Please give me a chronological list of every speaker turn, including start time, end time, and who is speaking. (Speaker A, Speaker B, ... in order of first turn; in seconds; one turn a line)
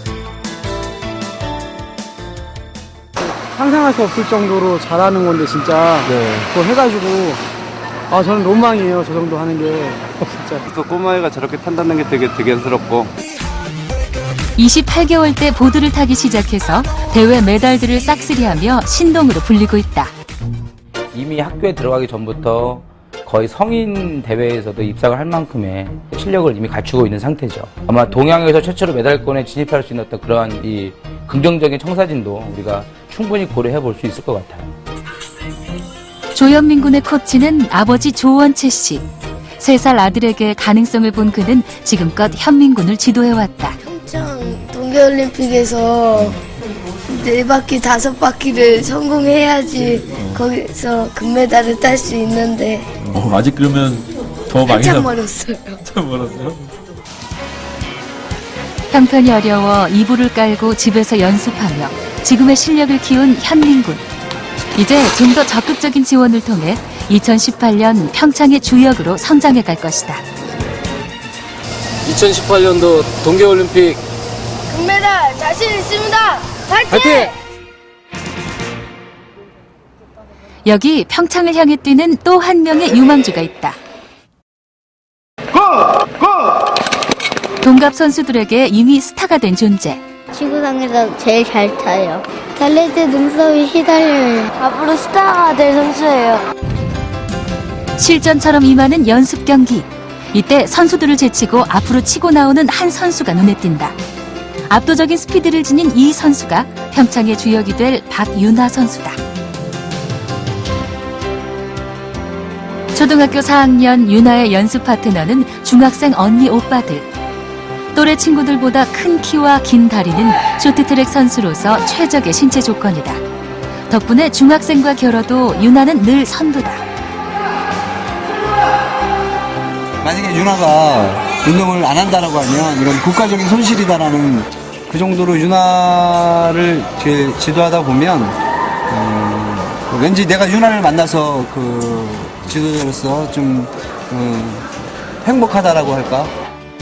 Speaker A: 3.2-7.4
Speaker A: 8.1-10.6
Speaker B: 10.7-13.1
Speaker C: 14.6-20.1
Speaker D: 21.1-34.7
Speaker C: 36.4-39.0
Speaker C: 39.6-43.8
Speaker E: 43.8-46.4
Speaker E: 47.1-52.9
Speaker F: 50.1-50.5
Speaker F: 53.0-55.2
Speaker E: 54.6-55.8
Speaker F: 55.8-56.6
Speaker C: 58.9-64.0
Speaker C: 64.8-70.2
Speaker G: 72.1-74.0
Speaker E: 74.7-77.3
Speaker G: 76.9-77.3
Speaker C: 80.7-83.8
Speaker C: 87.6-90.0
Speaker H: 90.3-96.5
Speaker C: 98.0-103.9
Speaker C: 104.7-109.2
Speaker C: 112.9-117.1
Speaker C: 118.0-123.2
Speaker C: 123.9-126.8
Speaker I: 130.0-138.4
Speaker I: 138.9-144.7
Speaker I: 145.2-146.3